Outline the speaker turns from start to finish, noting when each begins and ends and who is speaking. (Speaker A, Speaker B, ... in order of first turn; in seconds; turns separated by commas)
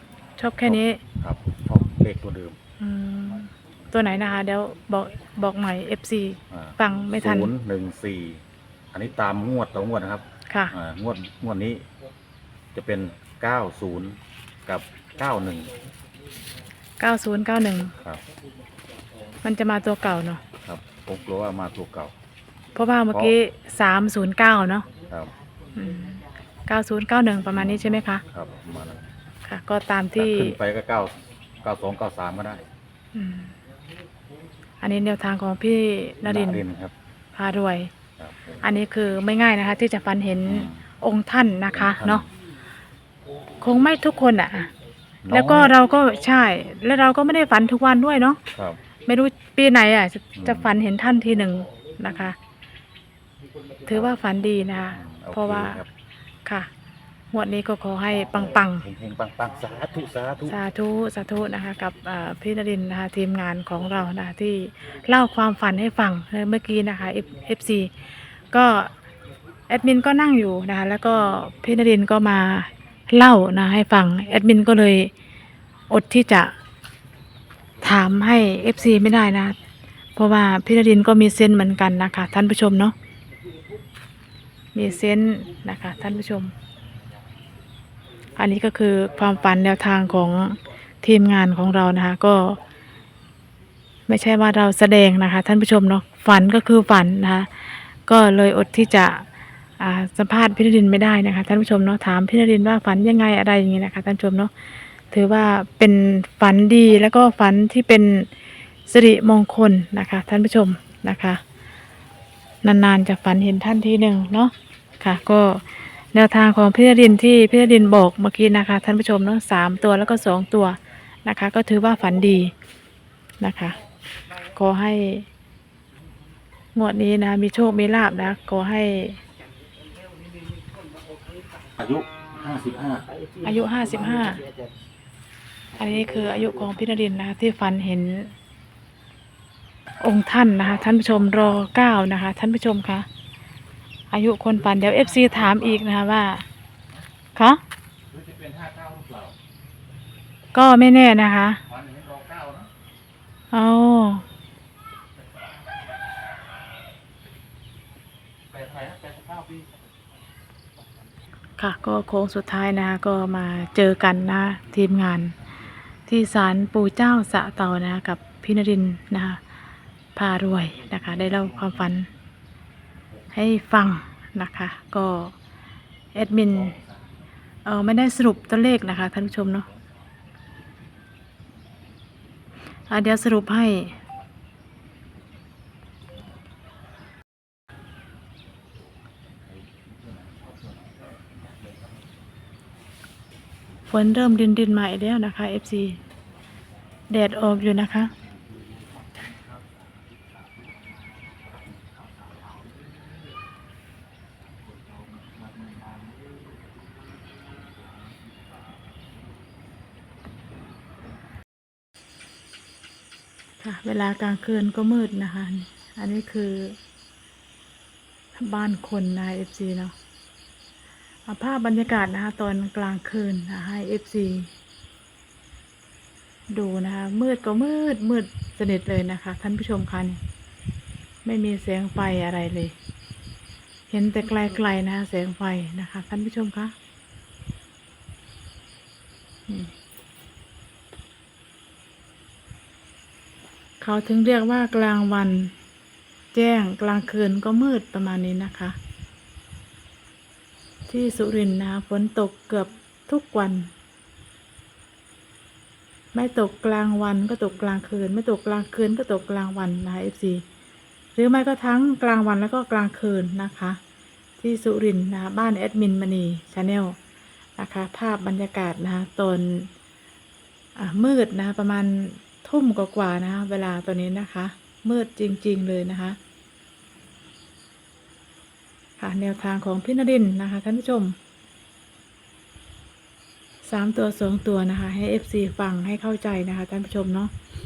Speaker A: 0.4-1.0, Speaker B: 0.6-2.6, Speaker A: 2.8-7.5, Speaker B: 6.5-8.4, Speaker B: 8.9-11.8, Speaker A: 10.5-10.7, Speaker B: 12.7-15.7, Speaker A: 17.0-17.9, Speaker A: 19.4-20.4, Speaker B: 20.6-22.1, Speaker A: 22.7-24.9, Speaker A: 25.7-28.2, Speaker B: 27.5-27.8, Speaker B: 28.3-29.1, Speaker A: 29.4-30.6, Speaker B: 30.1-32.6, Speaker A: 33.1-33.5, Speaker A: 34.8-36.6, Speaker B: 36.2-36.9, Speaker A: 37.3-37.9, Speaker B: 38.2-38.6, Speaker A: 38.6-42.2, Speaker B: 40.4-40.8, Speaker B: 41.7-42.2, Speaker A: 43.6-44.7, Speaker B: 45.2-45.7, Speaker A: 45.3-48.4, Speaker B: 48.5-48.8, Speaker A: 49.0-52.4, Speaker B: 50.3-50.7, Speaker A: 53.9-55.8, Speaker B: 54.9-55.9, Speaker A: 57.3-58.9, Speaker B: 58.5-60.6, Speaker A: 60.5-68.9, Speaker A: 69.7-75.1, Speaker A: 75.9-76.5, Speaker A: 77.8-79.5, Speaker A: 80.2-82.9, Speaker A: 84.7-86.5, Speaker A: 88.4-92.6, Speaker A: 94.1-99.2, Speaker A: 99.8-104.5, Speaker A: 105.1-108.3, Speaker A: 108.9-111.4, Speaker A: 112.6-122.5, Speaker A: 123.4-123.8, Speaker A: 124.5-125.2, Speaker A: 126.7-129.2, Speaker B: 131.7-133.1, Speaker A: 133.4-134.4, Speaker A: 135.7-138.3, Speaker A: 140.0-143.1, Speaker A: 144.1-146.4, Speaker B: 144.6-145.7, Speaker A: 147.3-147.6, Speaker B: 148.1-149.3, Speaker A: 150.5-151.6, Speaker B: 151.7-152.7, Speaker A: 153.5-154.2, Speaker B: 158.5-159.6, Speaker A: 161.6-165.3, Speaker A: 166.1-169.4, Speaker A: 170.1-172.1, Speaker A: 173.3-175.3, Speaker A: 176.1-176.8, Speaker A: 177.6-179.7, Speaker A: 182.9-183.9, Speaker A: 193.9-196.0, Speaker A: 197.1-198.1, Speaker A: 213.6-216.8, Speaker A: 218.4-219.9, Speaker A: 221.2-224.5, Speaker A: 226.5-230.2, Speaker A: 231.2-232.7, Speaker A: 233.9-236.7, Speaker A: 243.8-245.5, Speaker A: 246.3-248.8, Speaker A: 250.9-253.7, Speaker A: 256.1-260.4, Speaker A: 261.1-263.8, Speaker A: 264.4-266.9, Speaker A: 267.6-269.7, Speaker A: 270.8-276.2, Speaker A: 279.0-281.1, Speaker A: 283.6-287.3